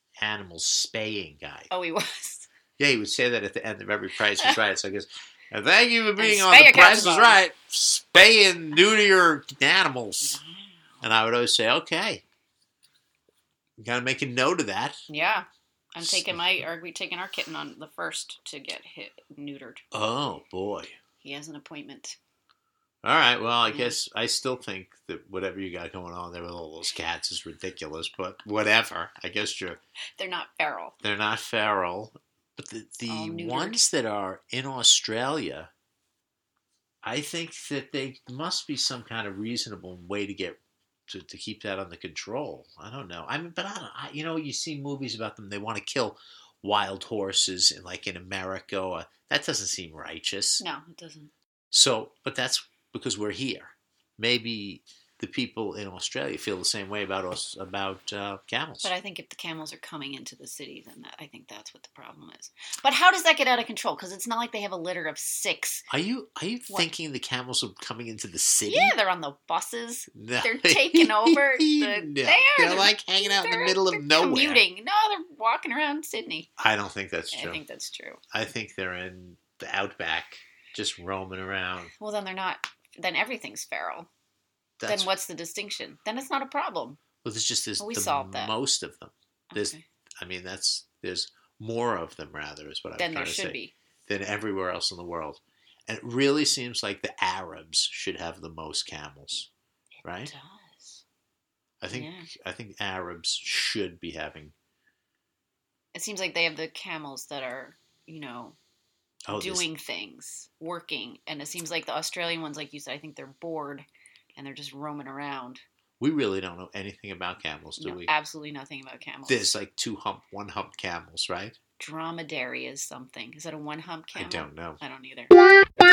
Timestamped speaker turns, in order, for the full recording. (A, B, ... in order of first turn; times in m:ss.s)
0:00.2-0:01.7 A
0:01.7-0:02.5 B
0:02.8-0:10.4 A
0:06.2-0:07.4 B
0:10.2-0:11.0 B
0:11.0-0:12.2 A
0:13.8-0:15.0 A
0:15.1-0:19.8 B
0:16.0-0:16.6 A
0:19.9-0:20.9 A
0:21.2-0:22.2 B
0:23.0-0:29.8 A
0:23.7-0:24.0 B
0:30.2-0:31.0 B
0:31.0-0:35.7 A
0:33.1-0:33.8 B
0:37.0-0:50.6 A
0:50.6-0:51.3 B
0:51.7-0:58.9 A
0:58.8-1:05.9 B
1:05.9-1:09.0 A
1:08.7-1:16.5 B
1:10.1-1:14.6 A
1:16.6-1:17.6 A
1:17.3-1:18.2 B
1:18.3-1:21.9 A
1:22.0-1:24.1 B
1:24.8-1:25.1 A
1:24.8-1:27.0 B
1:27.2-1:39.5 A
1:27.8-1:28.5 B
1:29.5-1:29.8 B
1:33.0-1:33.7 B
1:40.0-1:41.0 B
1:40.0-1:40.3 A
1:41.8-1:44.5 A
1:41.9-1:42.3 B
1:45.9-1:48.6 B
1:49.3-1:49.6 A
1:49.3-1:55.6 B
1:56.0-1:58.1 A
1:57.8-1:59.5 B
1:59.3-2:01.6 A
2:01.8-2:05.4 B
2:04.1-2:04.8 A